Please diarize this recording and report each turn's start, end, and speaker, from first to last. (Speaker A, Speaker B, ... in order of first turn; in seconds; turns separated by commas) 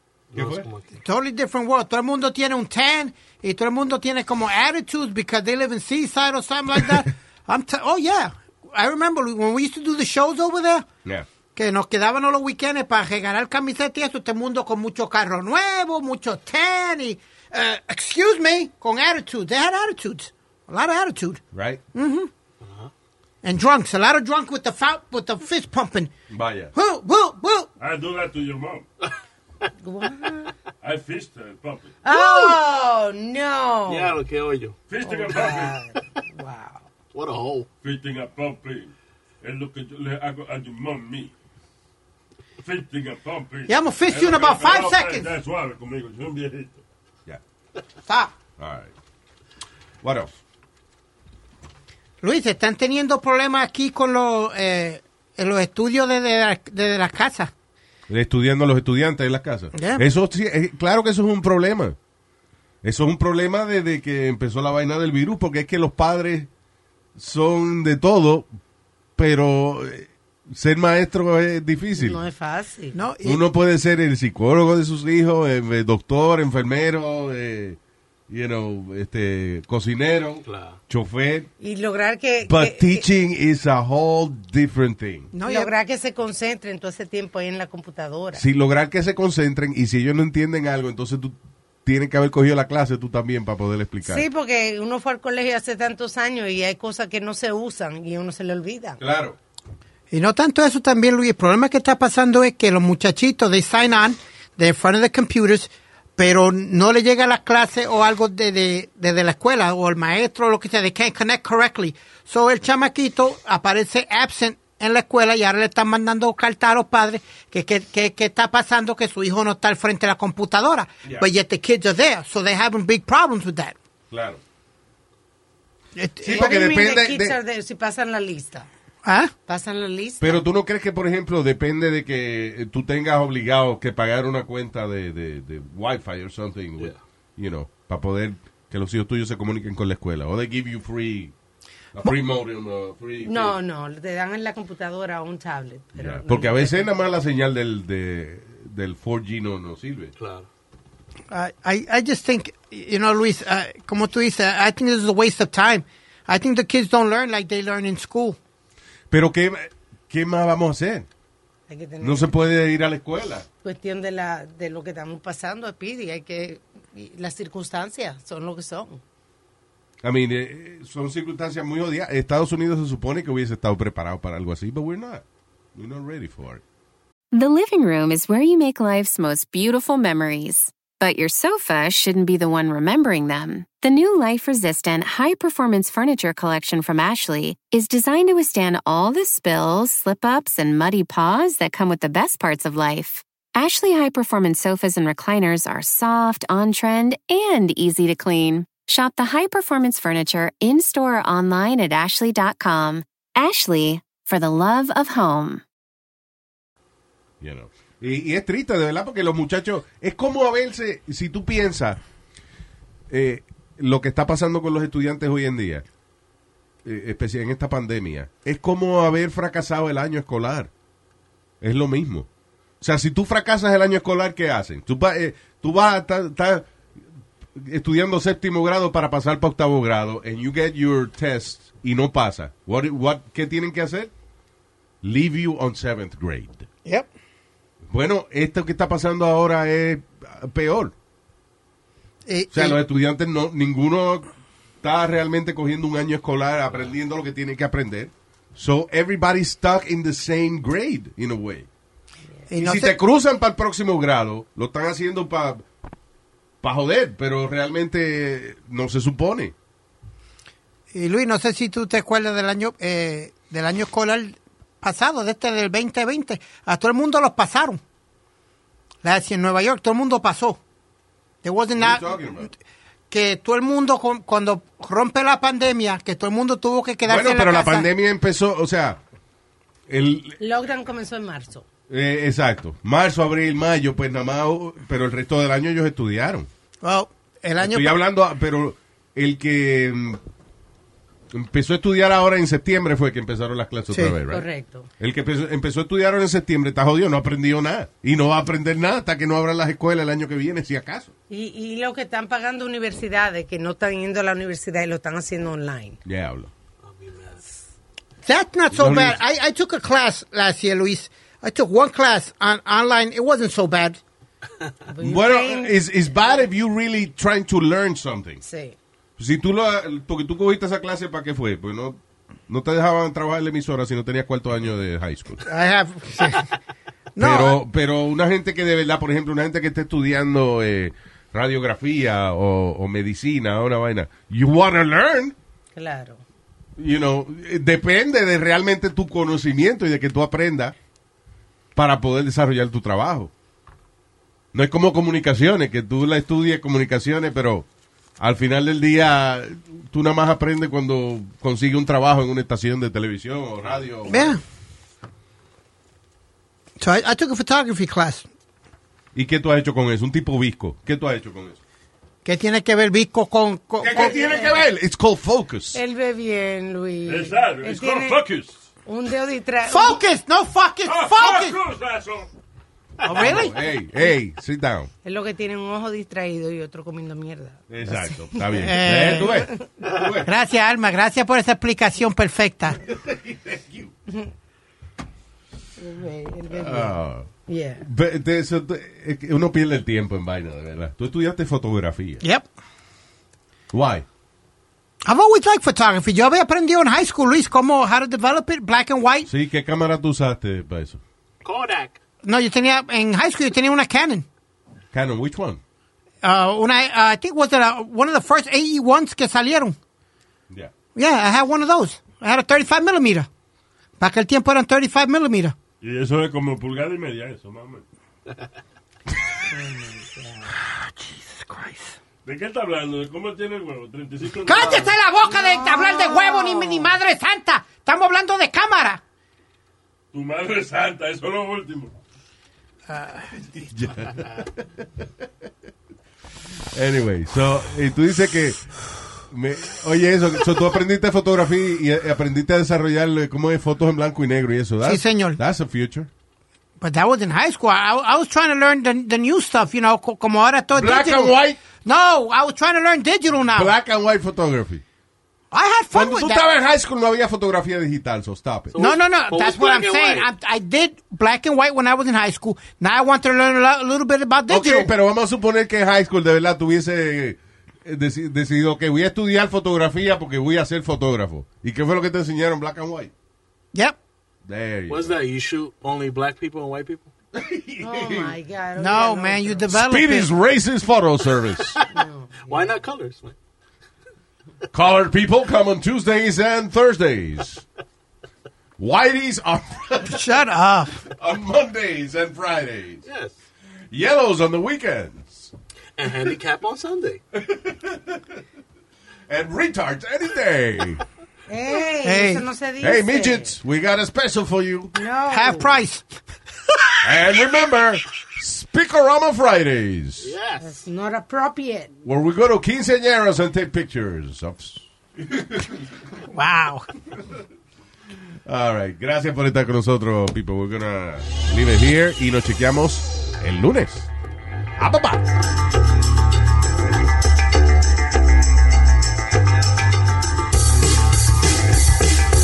Speaker A: 0.3-1.0, Speaker B: 0.3-0.7, Speaker C: 1.0-10.9, Speaker C: 11.6-21.4, Speaker B: 21.5-21.8, Speaker C: 21.9-22.3, Speaker A: 22.6-22.9, Speaker C: 23.4-26.1, Speaker B: 26.3-26.7, Speaker C: 26.7-27.7, Speaker D: 27.8-28.9, Speaker E: 29.8-30.5, Speaker D: 30.8-32.0, Speaker E: 32.0-34.2, Speaker A: 33.9-34.8, Speaker D: 34.9-35.8, Speaker E: 35.0-36.9, Speaker A: 37.1-37.7, Speaker D: 37.8-41.3, Speaker D: 42.6-46.8, Speaker C: 43.7-45.3, Speaker C: 48.1-48.3, Speaker B: 48.6-48.9, Speaker B: 50.0-50.4, Speaker C: 52.2-57.5, Speaker B: 58.1-62.0, Speaker C: 59.7-60.0, Speaker B: 62.8-66.5, Speaker B: 67.2-68.5, Speaker B: 69.2-72.2, Speaker E: 72.0-73.0, Speaker C: 72.9-73.4, Speaker B: 73.2-77.8, Speaker B: 78.3-81.5, Speaker A: 80.5-80.8, Speaker E: 81.6-83.1, Speaker B: 82.5-85.3, Speaker C: 85.3-85.7, Speaker E: 85.4-88.5, Speaker B: 88.3-94.2, Speaker E: 94.0-99.0, Speaker B: 99.0-99.4, Speaker C: 100.1-123.8, Speaker B: 124.1-124.4, Speaker C: 126.0-126.5, Speaker B: 126.2-127.4, Speaker E: 126.3-128.7, Speaker C: 129.0-129.3, Speaker E: 129.5-130.4, Speaker B: 130.2-141.3, Speaker B: 141.9-143.6, Speaker E: 143.2-146.9, Speaker B: 146.0-150.1, Speaker A: 150.2-150.5, Speaker C: 151.3-158.4, Speaker B: 159.1-161.1, Speaker E: 161.7-162.3, Speaker B: 162.0-163.5, Speaker E: 163.6-169.0, Speaker B: 170.0-175.2, Speaker B: 175.8-176.6, Speaker F: 177.3-205.6, Speaker B: 207.4-212.0, Speaker B: 213.1-215.8, Speaker B: 216.8-220.7, Speaker B: 221.6-222.3, Speaker B: 222.8-226.7, Speaker B: 227.6-234.1, Speaker B: 235.0-236.7, Speaker B: 237.9-240.9, Speaker C: 242.3-242.8, Speaker B: 242.5-244.3, Speaker B: 244.8-251.7, Speaker C: 252.5-253.0, Speaker B: 252.6-255.7, Speaker B: 256.6-259.5, Speaker C: 260.9-267.8, Speaker C: 269.0-270.6, Speaker C: 271.4-272.5, Speaker B: 271.8-272.5, Speaker C: 273.1-277.9, Speaker B: 277.1-279.0, Speaker B: 279.9-280.4, Speaker E: 280.4-281.7, Speaker B: 281.9-286.5, Speaker C: 286.8-287.9, Speaker B: 287.6-290.2, Speaker B: 291.3-294.5, Speaker C: 293.9-294.2, Speaker E: 294.3-294.9, Speaker B: 295.0-301.1, Speaker E: 301.3-306.0, Speaker B: 306.1-306.5, Speaker A: 306.8-307.4, Speaker C: 308.2-314.0, Speaker B: 308.7-309.2, Speaker E: 314.9-316.5, Speaker B: 315.0-318.4, Speaker E: 318.4-318.8, Speaker B: 319.2-325.4, Speaker C: 325.4-326.5, Speaker C: 327.1-327.6, Speaker B: 327.2-335.4, Speaker E: 335.7-336.2, Speaker B: 336.8-340.8, Speaker B: 341.8-343.3, Speaker B: 344.5-347.7, Speaker B: 348.2-354.4, Speaker C: 354.1-354.4, Speaker C: 356.8-358.3, Speaker B: 359.1-361.6, Speaker C: 362.2-364.2, Speaker B: 363.8-365.8, Speaker E: 363.9-364.6, Speaker E: 365.7-368.2, Speaker D: 367.1-368.7, Speaker E: 368.9-370.0, Speaker C: 369.6-371.6, Speaker D: 370.8-372.3, Speaker C: 373.0-373.6, Speaker B: 373.1-374.9, Speaker E: 375.0-378.4, Speaker B: 377.7-380.3, Speaker C: 378.6-379.6, Speaker C: 380.2-382.8, Speaker B: 382.9-383.9, Speaker E: 385.8-387.0, Speaker B: 386.5-387.3, Speaker E: 387.5-387.8, Speaker B: 387.8-392.2, Speaker C: 392.2-392.5, Speaker B: 393.7-394.1, Speaker C: 395.1-399.3, Speaker B: 399.3-401.0, Speaker A: 401.4-402.0, Speaker C: 402.2-404.3, Speaker B: 404.9-405.6, Speaker C: 406.2-409.8, Speaker C: 410.9-413.3, Speaker C: 414.0-415.6, Speaker D: 415.8-417.9, Speaker E: 419.5-420.5, Speaker C: 420.5-422.0, Speaker D: 422.2-424.9, Speaker C: 424.4-429.0, Speaker E: 425.3-426.9, Speaker D: 430.1-432.0, Speaker C: 432.9-433.3, Speaker B: 433.7-434.6, Speaker B: 436.7-438.7, Speaker B: 439.3-446.1, Speaker C: 444.8-445.4, Speaker C: 446.8-453.7, Speaker B: 450.8-451.6, Speaker B: 453.5-454.8, Speaker C: 455.5-456.5, Speaker B: 455.9-458.8, Speaker A: 458.7-460.3, Speaker C: 458.8-464.9, Speaker B: 464.5-473.1, Speaker C: 473.7-474.0, Speaker B: 474.4-475.2, Speaker A: 474.9-477.1, Speaker B: 477.4-478.3, Speaker E: 477.8-479.7, Speaker C: 478.8-480.3, Speaker B: 479.7-481.8, Speaker E: 481.9-482.8, Speaker A: 482.5-483.4, Speaker B: 484.7-487.6, Speaker B: 488.8-490.3, Speaker C: 490.1-491.0, Speaker B: 491.1-493.0, Speaker A: 493.1-493.4, Speaker B: 493.9-495.5, Speaker A: 496.0-497.2, Speaker B: 497.3-498.2, Speaker B: 499.3-501.0, Speaker E: 501.5-503.6, Speaker C: 502.0-502.5, Speaker B: 502.8-505.0, Speaker E: 505.0-505.8, Speaker C: 505.3-506.2, Speaker B: 507.0-510.3, Speaker A: 510.2-510.9, Speaker E: 510.6-511.9, Speaker B: 512.0-515.9, Speaker C: 516.3-516.9, Speaker B: 518.5-524.1, Speaker B: 524.8-525.2